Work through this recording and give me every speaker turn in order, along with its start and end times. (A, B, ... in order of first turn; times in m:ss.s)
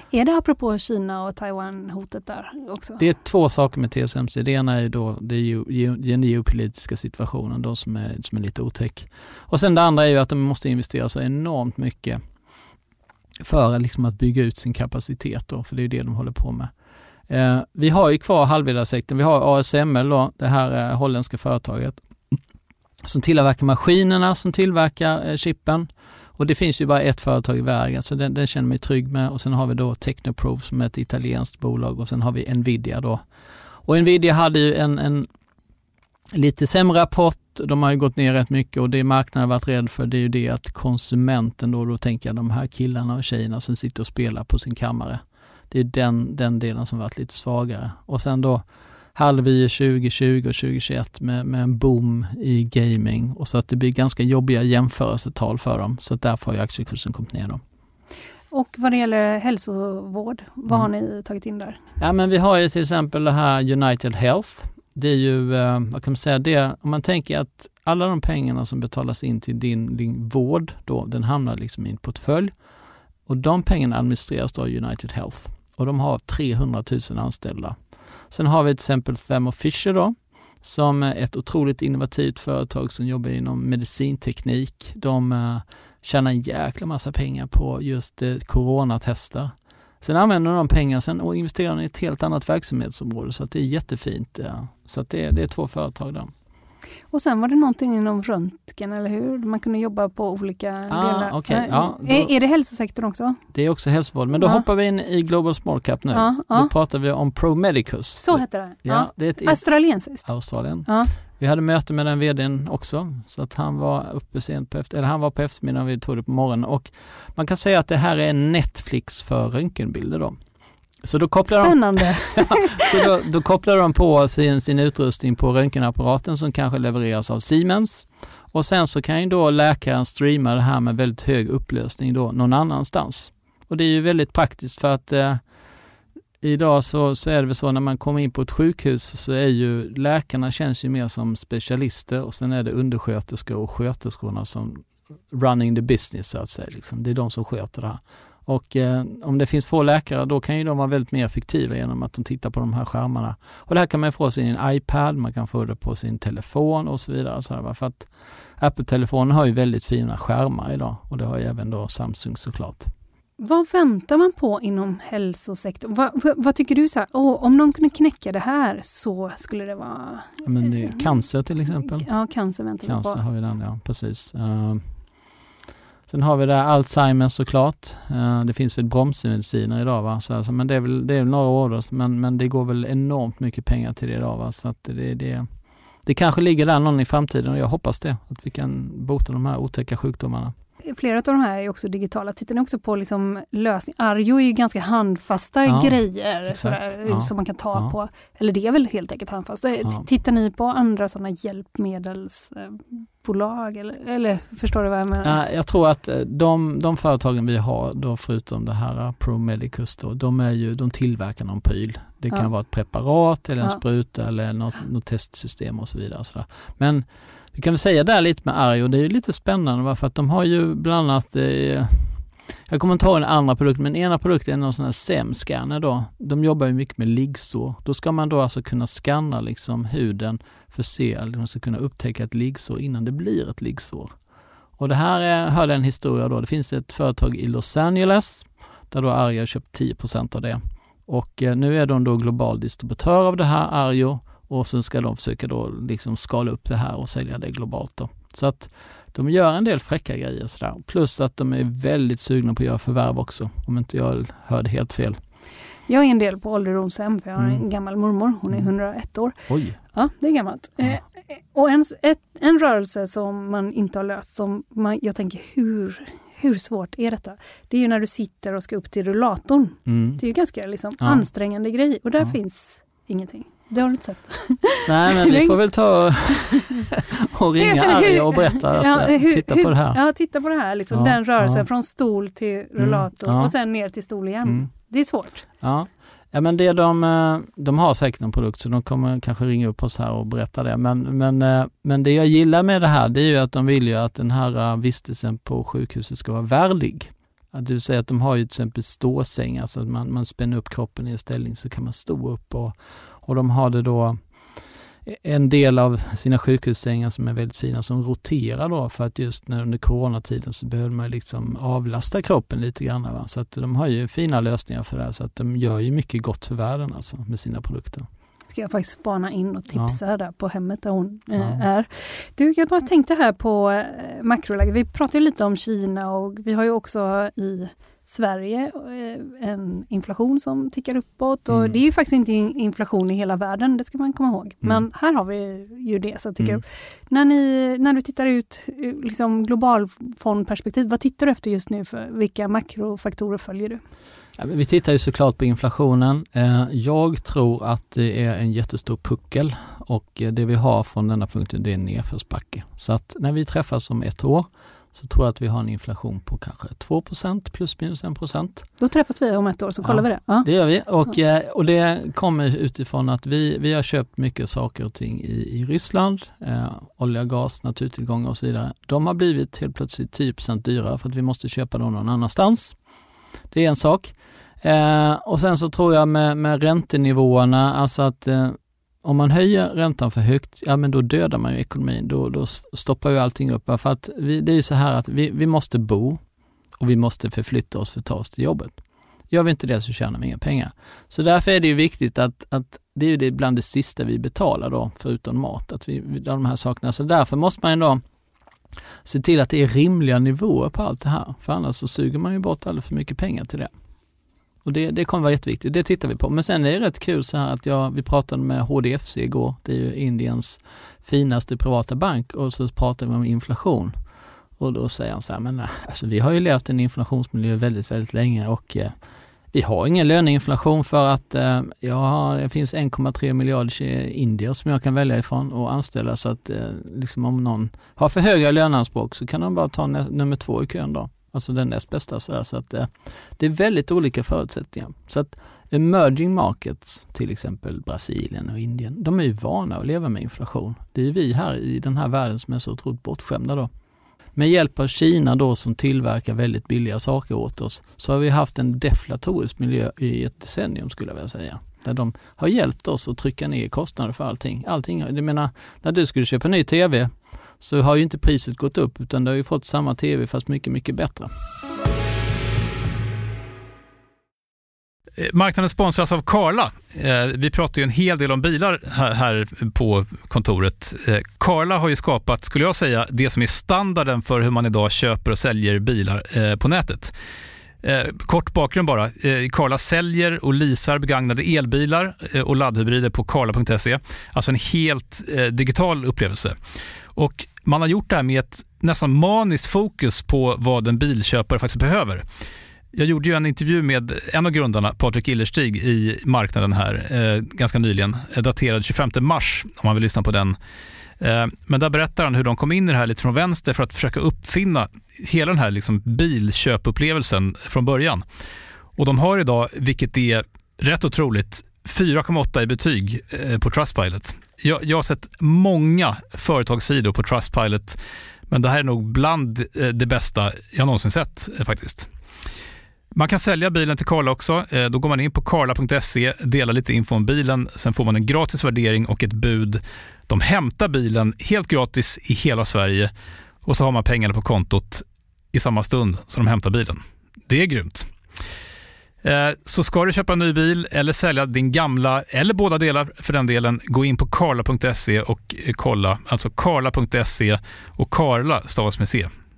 0:00.1-0:03.0 A
0:03.0-0:12.2 B
0:13.4-0:16.7 B
0:17.3-0:22.4 B
0:23.0-0:33.2 B
0:33.8-0:35.3 B
0:36.3-0:57.6 B
0:58.5-1:01.8 A
1:02.0-1:12.5 B
1:13.3-1:17.8 B
1:18.3-1:36.3 B
1:37.1-1:43.4 A
1:40.9-1:42.3 B
1:43.5-2:00.4 B
1:44.4-1:44.6 A
1:46.1-1:46.7 A
1:48.2-1:50.3 A
1:50.8-1:51.1 A
2:01.0-2:15.4 B
2:01.5-2:03.0 A
2:16.4-2:42.9 B
2:43.4-2:51.0 A
2:50.4-2:52.1 B
2:51.9-2:53.2 A
2:52.8-2:54.9 B
2:56.1-3:05.5 B
3:06.0-3:10.5 B
3:10.8-3:25.4 A
3:15.6-3:17.9 B
3:25.2-3:54.1 B
3:54.8-4:15.2 B
4:15.9-4:19.4 A
4:17.4-4:17.6 B
4:19.5-4:19.8 B
4:19.9-4:35.6 A
4:29.8-4:30.2 B
4:31.0-4:31.2 B
4:34.8-4:40.0 B
4:37.6-4:45.4 A
4:40.9-4:41.6 B
4:42.8-4:43.5 B
4:44.4-4:44.7 B
4:45.6-5:04.2 B
5:05.0-5:18.1 B
5:18.5-5:43.8 A
5:21.4-5:21.6 B
5:31.5-5:31.8 B
5:44.4-5:58.6 B
5:58.8-6:00.5 A
5:59.8-6:12.8 B
6:13.5-6:26.2 B
6:26.8-6:28.7 B
6:29.3-6:38.0 B
6:39.0-6:43.7 B
6:44.6-6:53.9 B
6:54.6-6:59.0 B
6:59.5-7:23.7 B
7:24.4-7:41.3 B
7:45.2-7:57.1 C
7:57.8-8:06.6 C
8:07.1-8:12.2 C
8:12.9-8:20.6 C
8:21.2-8:28.2 C
8:29.0-8:38.0 C
8:38.5-8:42.1 C
8:43.1-8:53.1 C
8:53.6-8:58.1 C
8:59.2-9:09.3 C